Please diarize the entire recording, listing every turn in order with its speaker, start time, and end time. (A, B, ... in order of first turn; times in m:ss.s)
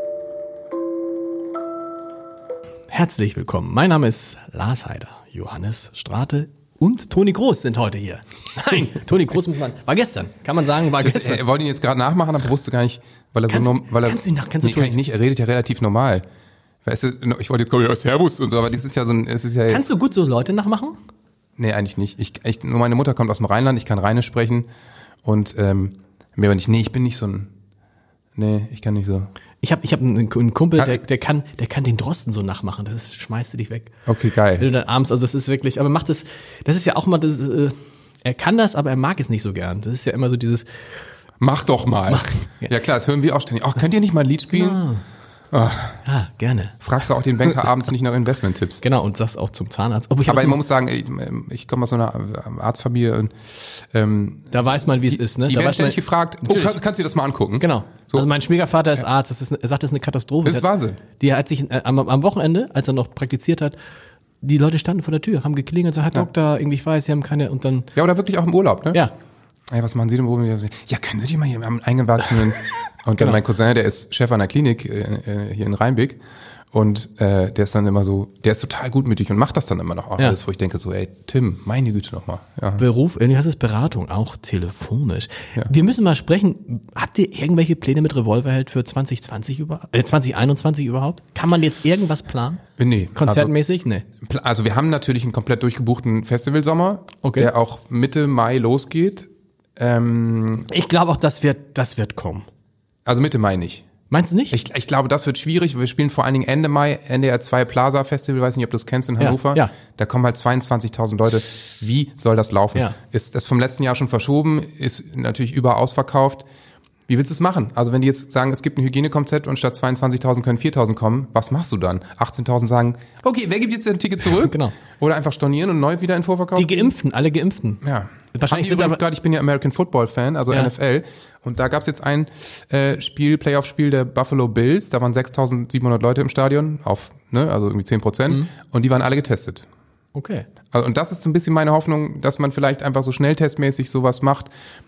0:02.9-0:11.4 A
0:11.0-0:16.2 B
0:13.5-0:15.0 A
0:16.8-0:19.8 B
0:19.7-0:21.0 A
0:21.6-0:24.7 B
0:25.2-0:27.5 B
0:28.4-0:29.3 B
0:29.6-0:33.9 A
0:30.8-0:31.0 B
0:34.0-0:34.7 B
0:34.6-0:40.8 A
0:41.4-0:44.8 B
0:42.1-0:42.7 A
0:44.5-0:45.0 A
0:45.5-0:46.0 B
0:46.0-0:46.8 A
0:46.8-0:48.8 B
0:48.8-0:50.6 A
0:50.2-0:58.3 B
0:54.5-0:56.8 A
0:57.6-1:03.8 A
1:00.4-1:01.0 B
1:04.4-1:07.9 A
1:07.9-1:09.0 B
1:09.7-1:16.2 B
1:16.7-1:22.8 B
1:22.8-1:32.6 A
1:32.8-1:33.5 B
1:33.1-1:34.0 A
1:34.2-1:40.7 B
1:37.2-1:37.5 A
1:40.7-1:42.4 A
1:43.0-1:43.8 B
1:44.1-1:44.6 A
1:44.5-1:56.4 B
1:49.2-1:49.7 A
1:57.1-2:06.9 B
2:04.3-2:04.8 A
2:06.5-2:07.8 A
2:07.8-2:19.6 B
2:08.3-2:09.0 A
2:20.1-2:20.4 A
2:20.7-2:24.5 B